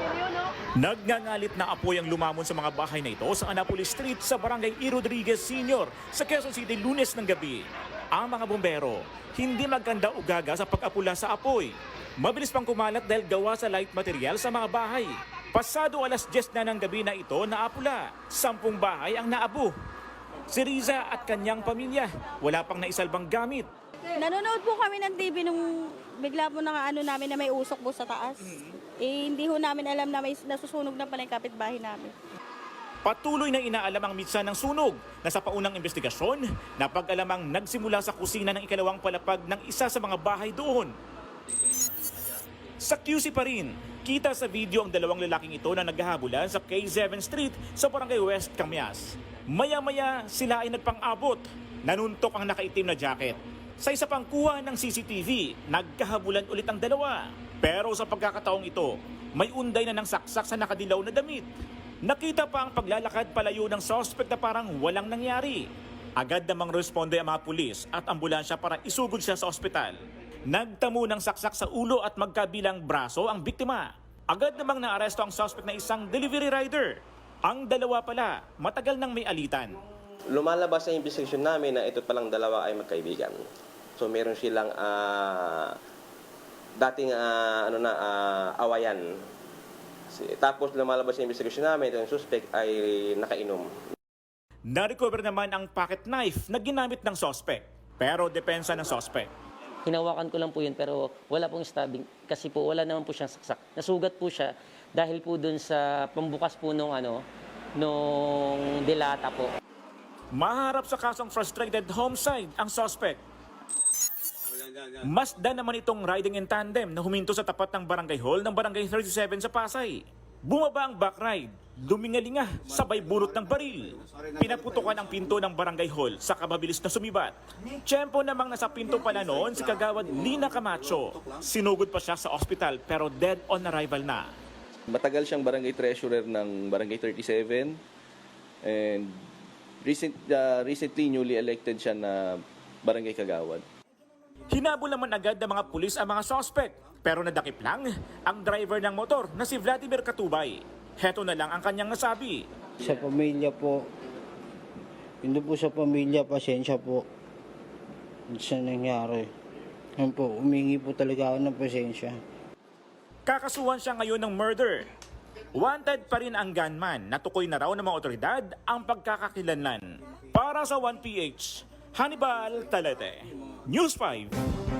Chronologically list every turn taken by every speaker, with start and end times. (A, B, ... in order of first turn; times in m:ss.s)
0:00.8-0:19.7 A
0:20.5-0:23.7 A
0:24.2-0:32.1 B
0:33.0-0:40.9 A
0:42.8-1:01.5 A
1:02.0-1:10.0 A
1:10.5-1:19.8 A
1:20.3-1:23.4 C
1:24.0-1:25.8 C
1:26.8-1:29.2 C
1:30.1-1:33.7 C
1:34.7-1:39.3 A
1:39.8-1:47.2 D
1:47.8-1:49.5 D
1:50.3-1:53.2 A
1:55.0-2:14.3 A
2:14.9-2:17.8 E
2:18.6-2:19.2 E
2:19.8-2:23.6 E
2:24.5-2:32.4 A
2:32.8-2:33.8 F
2:35.2-2:37.1 F
2:38.3-2:39.3 F
2:40.0-2:42.2 F
2:43.3-2:44.9 A
2:45.6-2:54.3 A